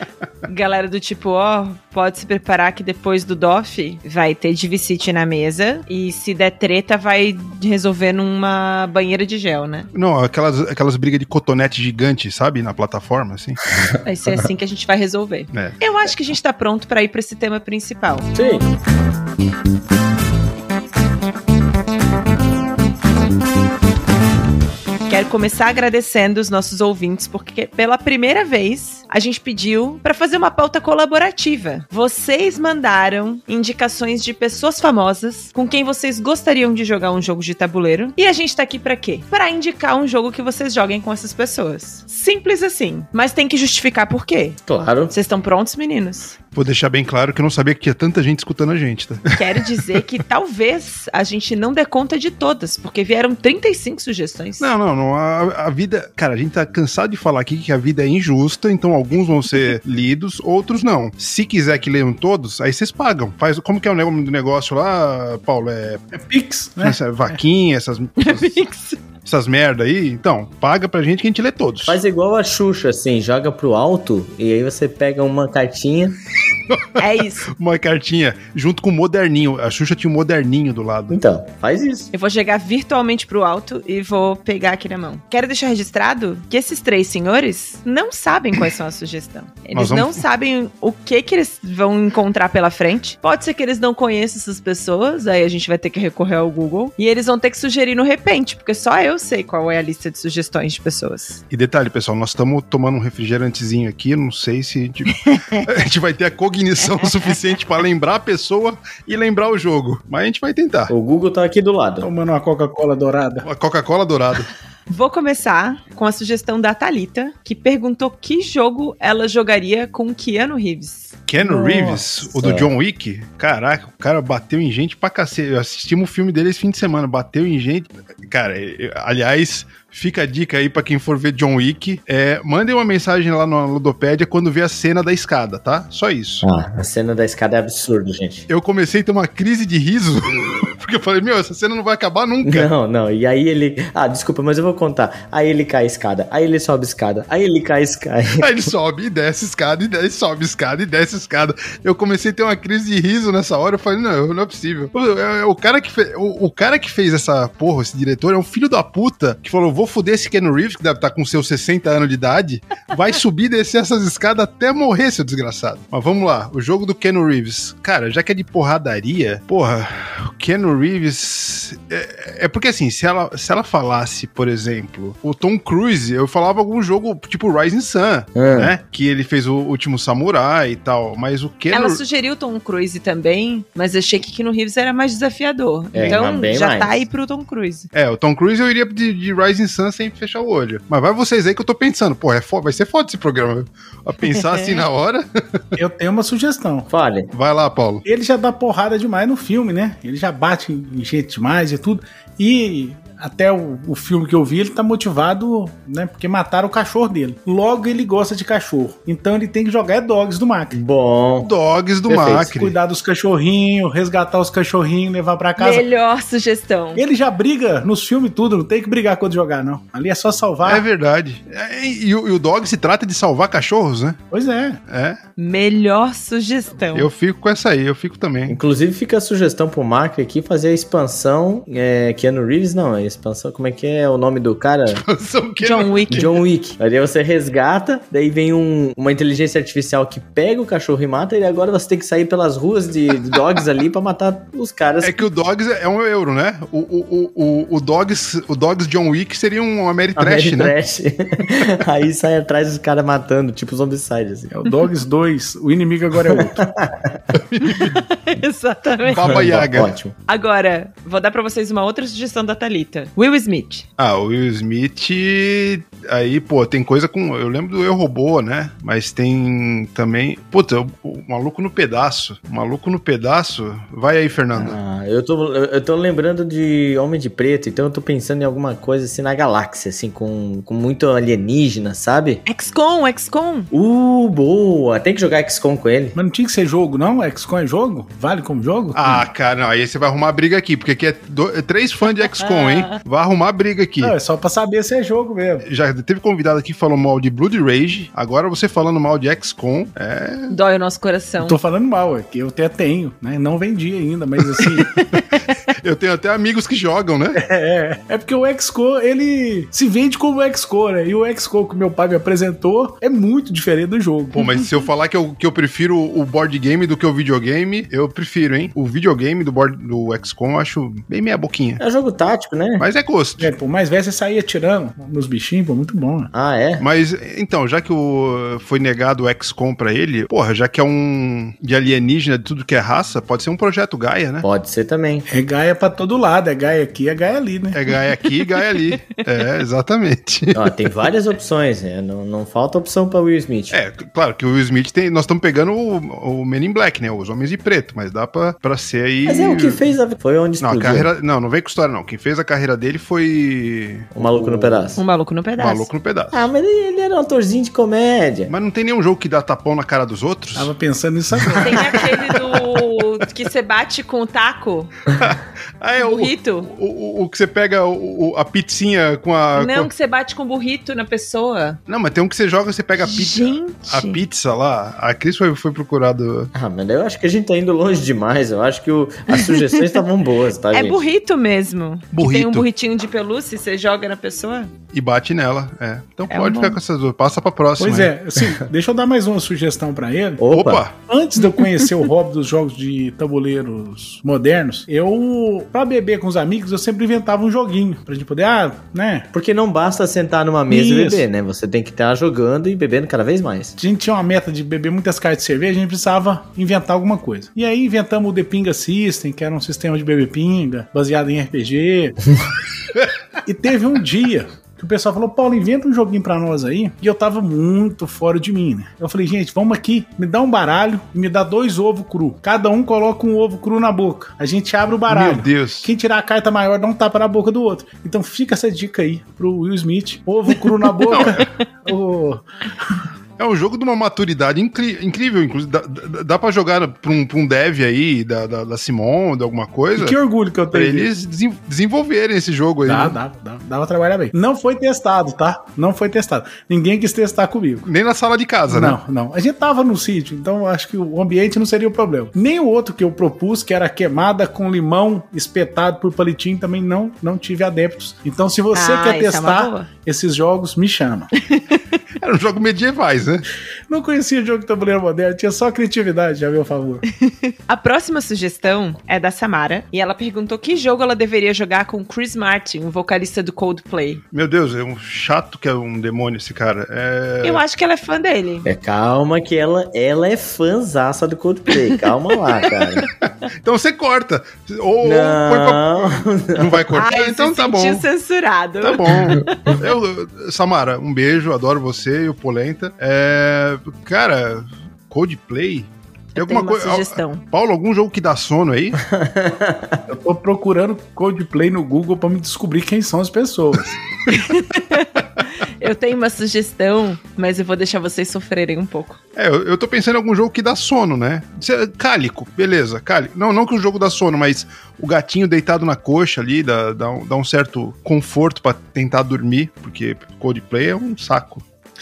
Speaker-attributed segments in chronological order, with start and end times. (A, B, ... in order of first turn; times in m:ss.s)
0:00.5-0:09.9 A
0:09.9-0:13.6 B
0:14.0-0:18.4 A
0:15.5-0:15.8 B
0:18.4-0:18.6 C
0:25.1-0:46.4 A
0:44.7-0:45.1 C
0:46.6-0:50.0 B
0:49.4-0:54.7 A
0:54.6-1:06.0 B
1:06.1-1:07.4 D
1:06.8-1:08.7 B
1:08.2-1:09.0 A
1:09.2-1:12.0 B
1:11.9-1:16.2 C
1:16.7-1:21.2 B
1:17.0-1:17.5 A
1:21.1-1:22.1 C
1:22.1-1:41.4 A
1:29.7-1:30.2 B
1:41.5-1:50.9 B
1:45.3-1:45.6 A
1:50.9-1:52.1 C
1:52.0-1:53.5 D
1:53.4-1:54.5 B
1:54.9-2:01.2 A
2:01.3-2:16.5 B
2:01.6-2:02.7 C
2:16.4-2:18.4 C
2:18.5-2:22.7 B
2:22.4-2:28.7 C
2:28.4-3:02.0 B
2:58.4-2:58.7 C
3:01.7-3:07.9 A
3:05.9-3:07.0 C
3:07.9-3:15.6 B
3:14.2-3:14.8 A
3:15.8-3:16.9 D
3:16.9-3:17.3 C
3:17.3-3:18.0 B
3:18.1-3:30.8 D
3:30.7-3:31.5 C
3:31.4-3:32.8 B
3:32.1-3:32.6 C
3:32.6-3:35.8 D
3:35.6-3:37.0 A
3:37.0-3:40.8 D
3:40.6-3:44.2 B
3:44.3-3:44.8 D
3:44.9-3:45.2 B
3:45.4-3:47.1 A
3:46.9-3:48.6 B
3:48.5-3:55.0 C
3:54.9-3:56.3 B
3:55.6-3:56.4 A
3:56.1-4:05.2 C
4:05.0-4:10.7 B
4:10.2-4:14.5 C
4:14.5-4:16.7 D
4:16.3-4:17.2 C
4:17.3-4:18.0 B
4:17.6-4:19.4 A
4:19.0-4:19.9 B
4:19.2-4:20.1 C
4:20.3-4:23.8 A
4:24.0-4:34.8 B
4:34.6-4:42.4 C
4:42.5-4:43.7 A
4:43.7-4:46.2 C
4:46.2-4:49.3 D
4:49.0-4:54.2 B
4:52.4-4:53.0 A
4:54.0-4:55.7 D
4:55.6-5:00.6 B
5:00.5-5:01.6 A
5:01.4-5:04.9 D
5:04.8-5:05.4 A
5:05.1-5:07.4 B
5:07.4-5:14.4 D
5:14.4-5:21.8 B
5:21.8-5:22.8 C
5:22.8-5:23.5 B
5:23.4-5:26.3 D
5:26.3-5:26.8 C
5:26.8-5:34.5 B
5:34.4-5:35.3 C
5:35.3-5:37.8 D
5:37.7-5:40.8 B
5:38.4-5:39.1 A
5:40.5-5:43.8 C
5:43.7-5:49.8 B
5:49.3-5:51.1 C
5:50.6-5:55.0 B
5:54.1-5:55.0 C
5:55.0-5:55.9 A
5:55.6-5:56.5 B
5:56.3-5:58.5 C
5:58.5-6:00.7 B
6:00.6-6:02.0 D
6:01.4-6:02.8 B
6:01.6-6:04.9 A
6:05.1-6:09.9 B
6:06.0-6:06.7 A
6:09.6-6:11.8 A
6:11.9-6:16.5 B
6:13.0-6:14.2 A
6:16.5-6:21.0 C
6:19.3-6:20.0 A
6:20.7-6:24.7 A
6:22.1-6:22.7 B
6:24.9-6:28.1 B
6:26.3-6:26.8 A
6:27.8-6:30.4 D
6:30.4-6:30.8 C
6:30.5-6:30.9 B
6:31.1-6:39.3 D
6:39.3-6:43.8 C
6:40.7-6:41.3 D
6:43.8-6:52.2 D
6:53.4-7:13.0 D
7:05.1-7:05.9 B
7:11.1-7:11.4 B
7:13.4-7:20.2 B
7:20.0-7:21.1 D
7:20.7-7:23.2 B
7:22.8-7:27.9 D
7:27.9-7:29.0 B
7:28.7-7:41.3 D
7:38.7-7:39.9 A
7:41.5-7:41.8 A
7:42.2-7:43.5 B
7:43.9-7:47.0 D
7:47.3-7:54.2 A
7:54.3-7:57.6 B
7:57.4-7:58.7 A
7:58.6-8:03.1 C
8:02.6-8:03.1 A
8:03.6-8:08.0 B
8:05.0-8:06.9 C
8:06.9-8:09.8 A
8:08.8-8:19.0 B
8:16.4-8:17.4 A
8:19.0-8:20.0 C
8:20.1-8:24.0 D
8:24.3-8:29.2 A
8:29.4-8:41.6 B